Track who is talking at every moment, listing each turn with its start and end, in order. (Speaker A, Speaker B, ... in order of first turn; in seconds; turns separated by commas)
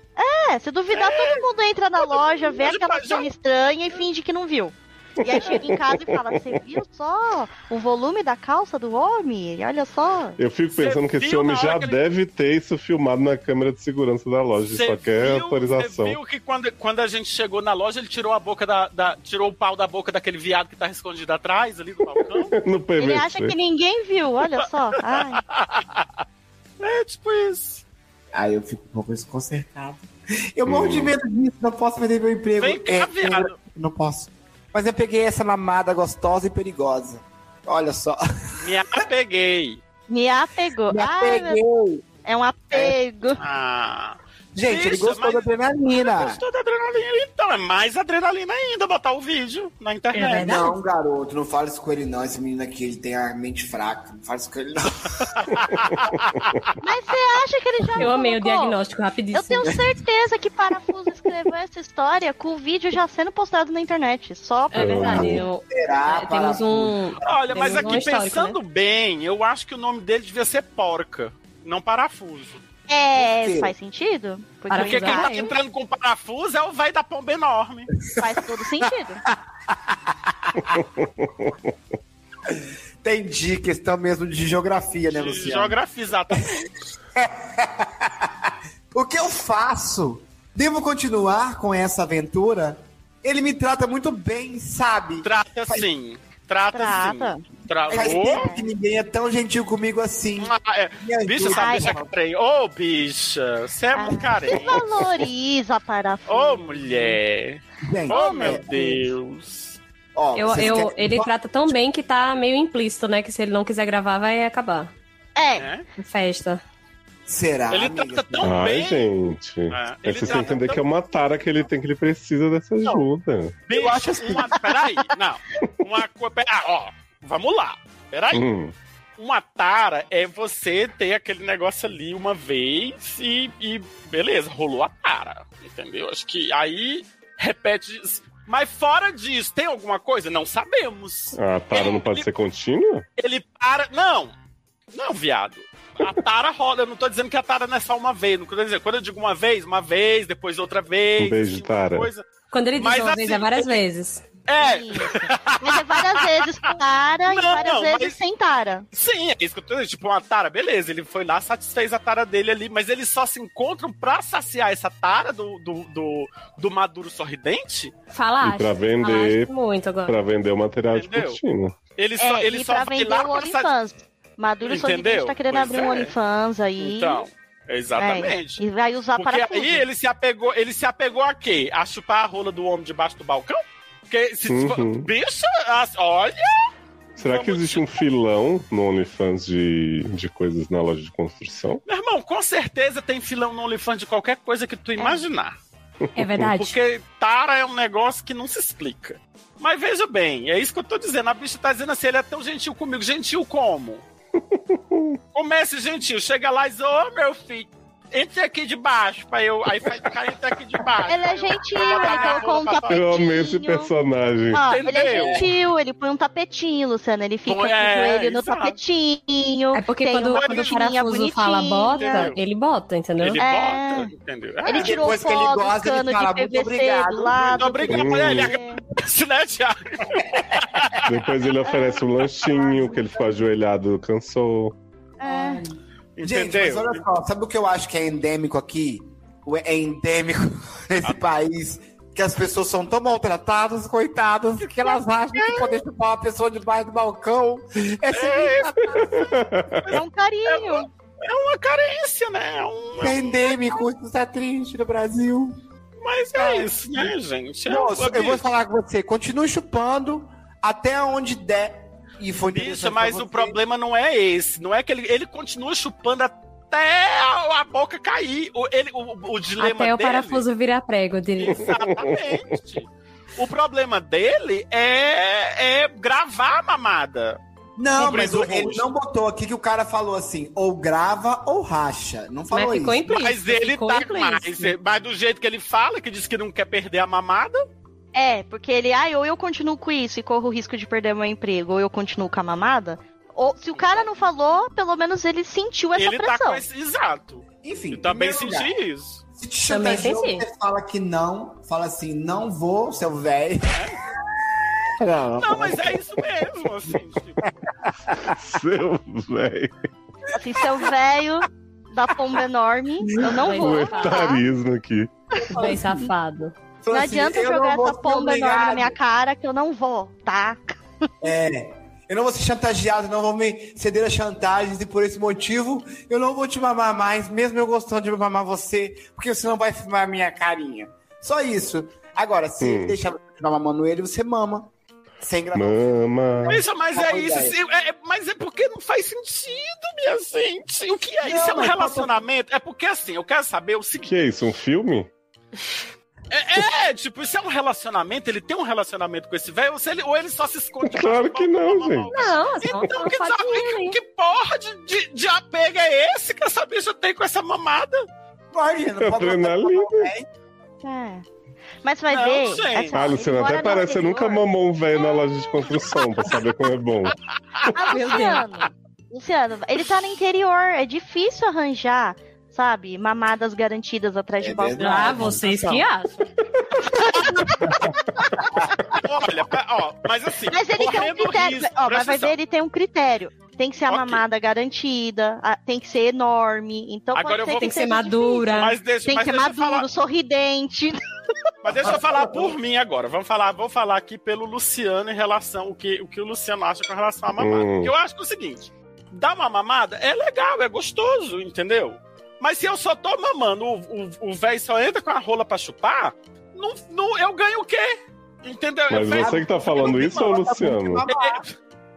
Speaker A: 0.2-10.4, Speaker B: 0.9-1.5, Speaker B: 2.0-3.3, Speaker C: 5.4-6.3, Speaker C: 10.4-16.2, Speaker B: 10.7-12.0, Speaker B: 14.7-22.6, Speaker C: 22.5-23.6, Speaker A: 23.0-25.4, Speaker B: 25.1-26.2, Speaker B: 26.8-27.8, Speaker D: 28.3-38.2, Speaker C: 30.7-31.1, Speaker B: 32.6-33.6, Speaker B: 38.6-39.8, Speaker A: 40.1-41.6, Speaker D: 40.9-42.0, Speaker A: 42.2-43.4, Speaker D: 42.7-43.0, Speaker B: 43.4-50.5, Speaker D: 44.5-46.4, Speaker E: 50.1-50.8, Speaker D: 50.3-55.4, Speaker B: 55.4-56.6, Speaker A: 56.8-58.8, Speaker E: 58.0-59.8, Speaker A: 59.3-65.4, Speaker E: 64.7-68.6, Speaker C: 64.7-65.5, Speaker D: 65.7-68.1, Speaker B: 67.2-72.6, Speaker A: 72.9-75.4, Speaker D: 73.2-73.7, Speaker E: 74.7-75.5, Speaker B: 74.8-77.9, Speaker A: 78.2-79.2, Speaker D: 79.7-80.8, Speaker C: 80.8-81.6, Speaker D: 82.5-85.8, Speaker B: 85.1-86.7, Speaker D: 87.2-95.9, Speaker B: 95.2-98.5, Speaker A: 96.7-97.5, Speaker D: 97.9-102.1, Speaker A: 98.0-98.7, Speaker B: 100.4-104.8, Speaker A: 101.5-101.9, Speaker A: 104.0-107.2, Speaker B: 106.3-109.8, Speaker D: 107.8-109.1, Speaker A: 108.1-108.8, Speaker D: 110.2-111.3, Speaker E: 110.3-114.9, Speaker A: 115.4-115.7, Speaker B: 115.5-115.9, Speaker E: 116.0-116.6, Speaker D: 117.3-118.6, Speaker B: 117.7-119.1, Speaker C: 118.4-123.6, Speaker B: 119.7-120.9, Speaker B: 123.7-128.5, Speaker D: 123.7-124.6, Speaker C: 128.3-128.7, Speaker B: 129.2-142.3, Speaker C: 141.3-143.1, Speaker B: 143.2-144.3, Speaker B: 144.9-152.3, Speaker C: 151.2-152.1, Speaker E: 152.5-154.2, Speaker B: 152.8-153.8, Speaker B: 154.4-156.7, Speaker A: 154.6-158.9, Speaker B: 157.2-158.2, Speaker B: 158.9-167.9, Speaker E: 168.1-170.2, Speaker C: 168.4-169.5, Speaker C: 170.1-171.8, Speaker B: 170.9-171.4, Speaker B: 172.0-173.7, Speaker A: 172.2-177.2, Speaker B: 174.6-176.1, Speaker B: 176.8-178.6, Speaker A: 178.0-179.9, Speaker B: 179.2-187.9, Speaker C: 184.5-185.1, Speaker C: 187.2-191.8, Speaker B: 191.9-195.6, Speaker A: 195.0-195.2, Speaker E: 196.2-196.8, Speaker B: 196.4-204.0, Speaker C: 204.4-205.2, Speaker B: 205.3-213.1, Speaker A: 211.1-213.9, Speaker C: 212.9-214.6, Speaker A: 214.5-222.3, Speaker B: 214.6-215.5, Speaker B: 217.5-218.8, Speaker E: 219.7-223.4, Speaker B: 220.3-220.8, Speaker B: 221.9-222.4, Speaker B: 223.2-225.0, Speaker A: 223.4-224.1, Speaker A: 224.7-228.8, Speaker D: 224.7-227.7, Speaker B: 227.4-231.1, Speaker C: 227.9-228.5, Speaker D: 230.4-231.0, Speaker C: 231.1-234.8, Speaker A: 231.7-232.0, Speaker A: 235.2-235.7, Speaker E: 235.2-235.8, Speaker B: 236.2-237.0, Speaker D: 236.2-249.2, Speaker B: 244.6-245.8, Speaker B: 248.1-253.6, Speaker C: 249.1-249.9, Speaker A: 249.9-250.9, Speaker D: 253.0-255.6, Speaker B: 256.0-258.5, Speaker D: 256.3-257.1, Speaker D: 257.7-263.6, Speaker B: 262.5-270.4, Speaker E: 269.6-271.6, Speaker B: 271.4-277.4, Speaker C: 271.7-272.4, Speaker D: 277.8-283.1, Speaker B: 278.0-278.9, Speaker E: 282.5-284.7, Speaker B: 283.1-287.6, Speaker A: 288.1-296.6, Speaker B: 293.8-294.1, Speaker B: 296.0-299.2, Speaker D: 297.6-298.7, Speaker D: 299.4-303.8, Speaker E: 299.7-300.5, Speaker B: 303.7-304.0, Speaker D: 305.0-306.2, Speaker B: 305.4-307.4, Speaker D: 307.4-308.4, Speaker C: 308.3-309.7, Speaker A: 310.3-314.5, Speaker D: 310.6-310.8, Speaker E: 313.2-314.4, Speaker C: 313.5-315.1, Speaker A: 315.4-315.8, Speaker E: 315.5-316.5, Speaker D: 315.6-316.0, Speaker D: 316.8-319.0, Speaker A: 316.9-320.8, Speaker D: 321.2-337.6, Speaker C: 332.6-333.0, Speaker C: 335.5-336.6, Speaker B: 336.5-344.1, Speaker D: 341.2-342.1, Speaker C: 344.1-345.1, Speaker B: 346.3-358.1, Speaker C: 350.8-352.1, Speaker E: 352.1-354.0, Speaker D: 358.5-360.3, Speaker C: 359.0-360.1, Speaker A: 360.8-361.2, Speaker A: 361.8-364.4, Speaker B: 362.1-363.0, Speaker C: 362.9-367.1, Speaker B: 367.6-368.0, Speaker A: 367.7-375.4, Speaker E: 367.9-368.6, Speaker D: 374.4-375.8, Speaker E: 374.8-376.3, Speaker A: 376.9-377.7, Speaker D: 377.6-378.8, Speaker A: 378.2-378.5, Speaker B: 378.9-382.4, Speaker A: 380.5-388.4, Speaker B: 383.9-384.2, Speaker B: 387.1-387.9, Speaker E: 387.6-388.8, Speaker B: 388.4-389.9, Speaker A: 389.1-391.0, Speaker B: 391.6-410.4, Speaker C: 397.4-397.9, Speaker C: 408.9-411.1, Speaker D: 409.1-411.5, Speaker B: 411.1-411.6